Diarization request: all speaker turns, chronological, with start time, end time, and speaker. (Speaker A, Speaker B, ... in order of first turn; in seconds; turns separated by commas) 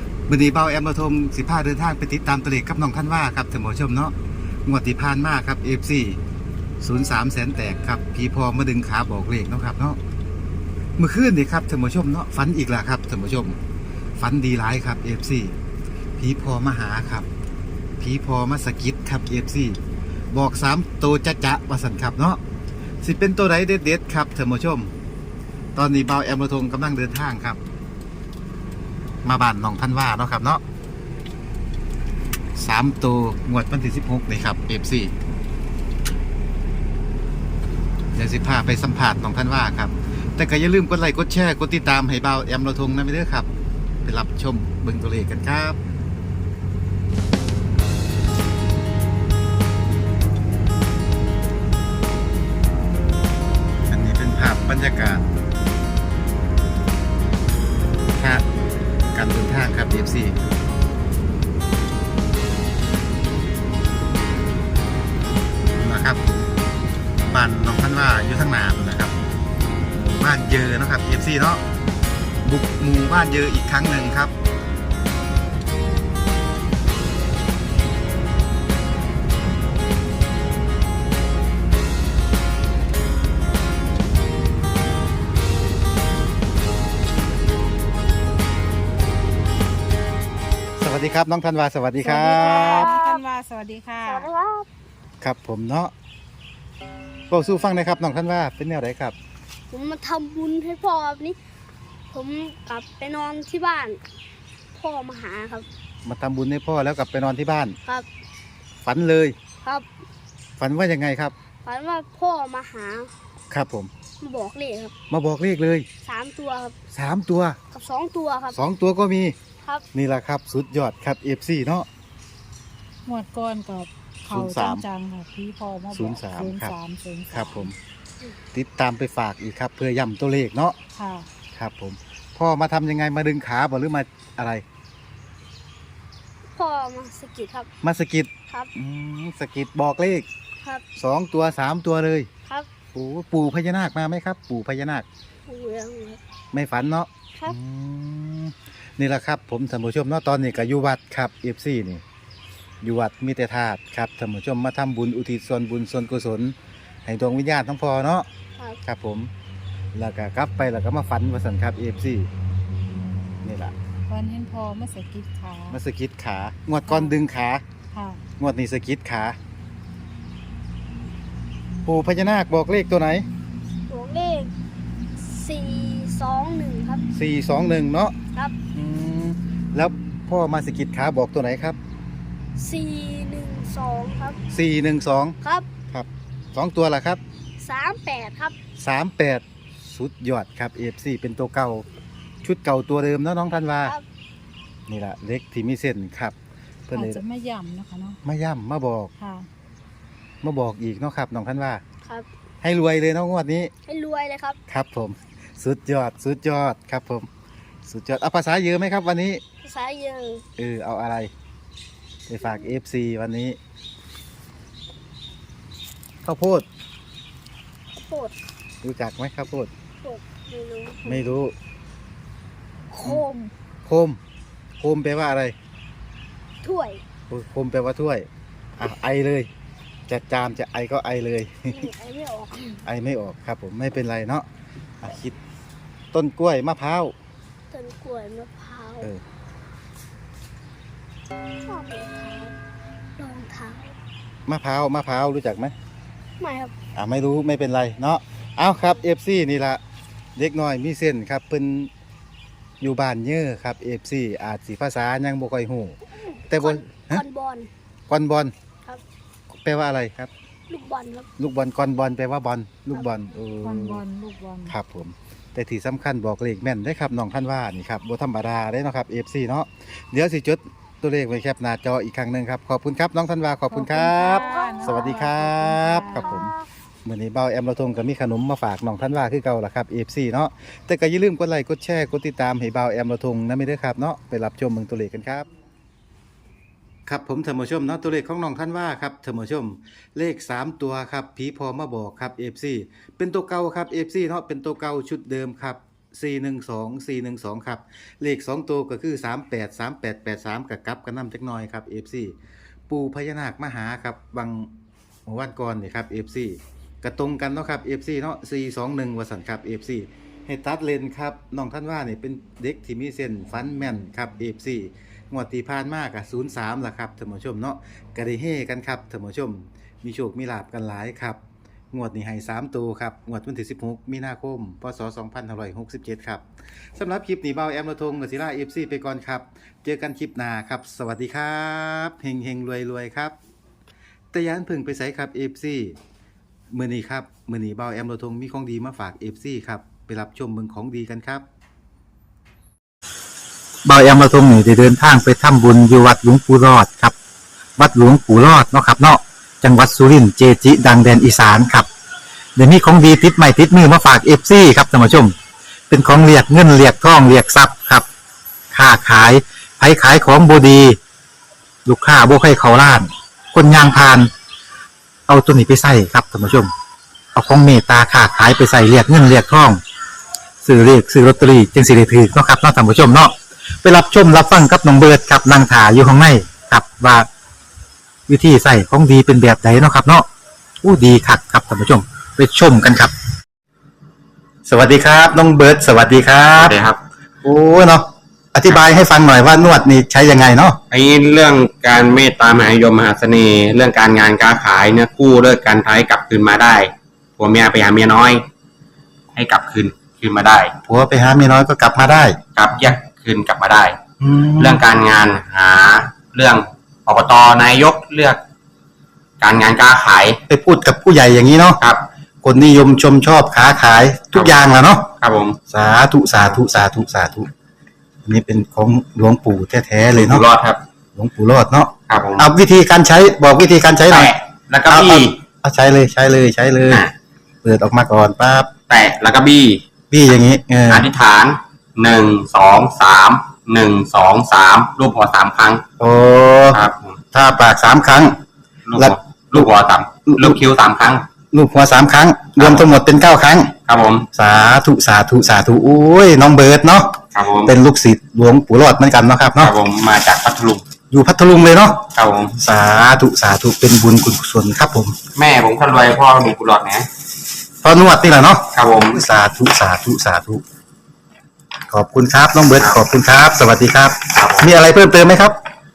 Speaker A: 0.3-6.2, Speaker A: 6.8-10.0, Speaker A: 11.0-13.6, Speaker A: 14.2-15.6, Speaker A: 16.2-17.3, Speaker A: 18.0-19.8, Speaker A: 20.3-22.4, Speaker A: 23.0-24.9, Speaker A: 25.8-27.6, Speaker A: 29.2-30.6, Speaker A: 32.6-35.1, Speaker A: 38.1-43.5, Speaker A: 44.0-45.8, Speaker A: 53.9-55.3, Speaker A: 58.1-58.5, Speaker A: 59.1-60.4, Speaker A: 65.7-66.5, Speaker A: 67.3-69.2, Speaker A: 69.9-71.6, Speaker A: 72.4-74.3, Speaker A: 90.8-92.9, Speaker B: 92.0-94.3, Speaker C: 92.5-93.2, Speaker C: 94.0-94.7, Speaker A: 95.2-95.9, Speaker A: 97.3-99.2, Speaker C: 99.7-101.4, Speaker C: 102.1-104.0, Speaker C: 104.8-105.7, Speaker A: 106.0-107.8, Speaker A: 108.8-109.3, Speaker A: 110.6-111.3, Speaker C: 111.6-113.1, Speaker A: 113.5-113.9, Speaker C: 114.2-114.9, Speaker A: 115.1-115.9, Speaker C: 116.0-116.8, Speaker A: 116.9-117.6, Speaker C: 117.7-118.6, Speaker A: 118.5-119.3, Speaker A: 119.9-121.9, Speaker B: 123.1-127.7, Speaker A: 124.3-124.8, Speaker A: 125.9-126.8, Speaker A: 127.3-127.7, Speaker A: 128.5-130.8, Speaker B: 131.0-131.3, Speaker A: 131.5-134.6, Speaker C: 136.6-137.7, Speaker A: 137.8-140.3, Speaker A: 141.0-142.3, Speaker A: 142.9-145.1, Speaker C: 145.5-146.2, Speaker A: 146.5-152.0, Speaker A: 152.8-158.3, Speaker A: 158.8-159.3, Speaker A: 159.9-162.3, Speaker A: 163.4-163.7, Speaker B: 164.1-165.8, Speaker A: 165.7-167.6, Speaker B: 166.9-167.1, Speaker B: 167.9-168.2, Speaker A: 168.4-169.4, Speaker A: 171.8-173.3, Speaker C: 173.9-174.5, Speaker C: 175.2-177.1, Speaker A: 177.1-178.1, Speaker A: 178.7-181.8, Speaker C: 182.6-184.4, Speaker A: 184.5-185.4, Speaker C: 185.4-185.7, Speaker A: 185.9-187.2, Speaker C: 187.6-188.6, Speaker A: 188.8-191.9, Speaker A: 192.4-193.9, Speaker A: 194.9-196.3, Speaker A: 196.9-197.2, Speaker B: 196.9-198.2, Speaker A: 198.2-199.1, Speaker B: 199.2-199.5, Speaker A: 200.4-201.8, Speaker A: 202.6-203.7, Speaker C: 203.9-204.6, Speaker A: 204.7-207.3, Speaker A: 207.9-209.4, Speaker C: 209.6-210.4, Speaker A: 210.6-211.3, Speaker A: 212.3-213.6, Speaker C: 212.4-212.7, Speaker A: 216.2-216.7, Speaker C: 217.9-218.3, Speaker A: 218.8-219.7, Speaker C: 220.0-221.3, Speaker A: 221.1-221.5, Speaker C: 223.0-223.5, Speaker A: 223.8-224.2, Speaker A: 224.8-225.6, Speaker C: 226.6-227.0, Speaker A: 227.3-229.5, Speaker A: 230.1-231.9, Speaker C: 231.7-232.8, Speaker A: 232.8-234.5, Speaker A: 235.0-235.4, Speaker A: 236.1-237.1, Speaker C: 237.7-239.1, Speaker C: 241.7-242.6, Speaker C: 243.2-244.0, Speaker A: 244.5-245.8, Speaker C: 246.4-246.7, Speaker A: 246.9-249.8, Speaker A: 250.4-251.9, Speaker A: 252.8-256.0, Speaker C: 256.2-257.7, Speaker A: 256.5-257.2, Speaker A: 258.1-258.5, Speaker A: 259.5-260.3, Speaker C: 260.7-261.3, Speaker A: 261.4-264.0, Speaker B: 263.6-264.7, Speaker A: 264.7-276.5, Speaker B: 273.7-276.5, Speaker C: 274.4-275.3, Speaker C: 276.2-276.5, Speaker A: 277.1-285.5, Speaker A: 287.1-302.4, Speaker A: 302.9-304.7, Speaker A: 305.3-321.4, Speaker A: 321.9-333.4, Speaker A: 334.3-336.0, Speaker A: 336.7-341.4, Speaker A: 343.9-347.1, Speaker A: 347.8-351.9, Speaker A: 352.6-355.4, Speaker A: 355.9-358.1, Speaker A: 358.7-361.0, Speaker A: 361.9-364.3, Speaker A: 365.3-366.7, Speaker A: 367.4-369.8, Speaker A: 370.6-377.3, Speaker A: 378.3-380.3, Speaker A: 380.8-383.1, Speaker A: 384.7-386.8, Speaker D: 386.5-387.0, Speaker A: 387.4-390.8, Speaker D: 390.9-398.4, Speaker D: 399.4-400.7, Speaker A: 400.9-402.4, Speaker D: 402.6-404.0, Speaker A: 404.2-404.8, Speaker D: 404.6-408.4, Speaker D: 409.4-410.4, Speaker A: 410.5-411.8, Speaker A: 412.4-415.1, Speaker D: 415.2-415.6, Speaker A: 415.7-417.5, Speaker A: 418.2-420.4, Speaker D: 420.1-420.8, Speaker A: 421.2-424.3, Speaker D: 422.1-422.5, Speaker D: 424.1-425.4, Speaker A: 424.9-427.0, Speaker A: 427.6-428.7, Speaker D: 428.9-429.8, Speaker A: 430.1-431.1, Speaker D: 430.9-435.8, Speaker A: 436.0-436.8, Speaker D: 436.7-437.2, Speaker A: 437.3-438.4, Speaker D: 438.9-441.3, Speaker A: 439.0-439.7, Speaker A: 440.3-440.6, Speaker A: 441.5-443.7, Speaker D: 442.6-443.0, Speaker D: 443.9-444.3, Speaker A: 444.3-449.7, Speaker D: 447.3-447.7, Speaker D: 449.6-450.9, Speaker A: 451.1-455.2, Speaker D: 452.1-452.6, Speaker D: 455.4-457.1, Speaker A: 457.8-460.6, Speaker D: 458.7-459.2, Speaker A: 461.9-465.6, Speaker D: 464.3-464.7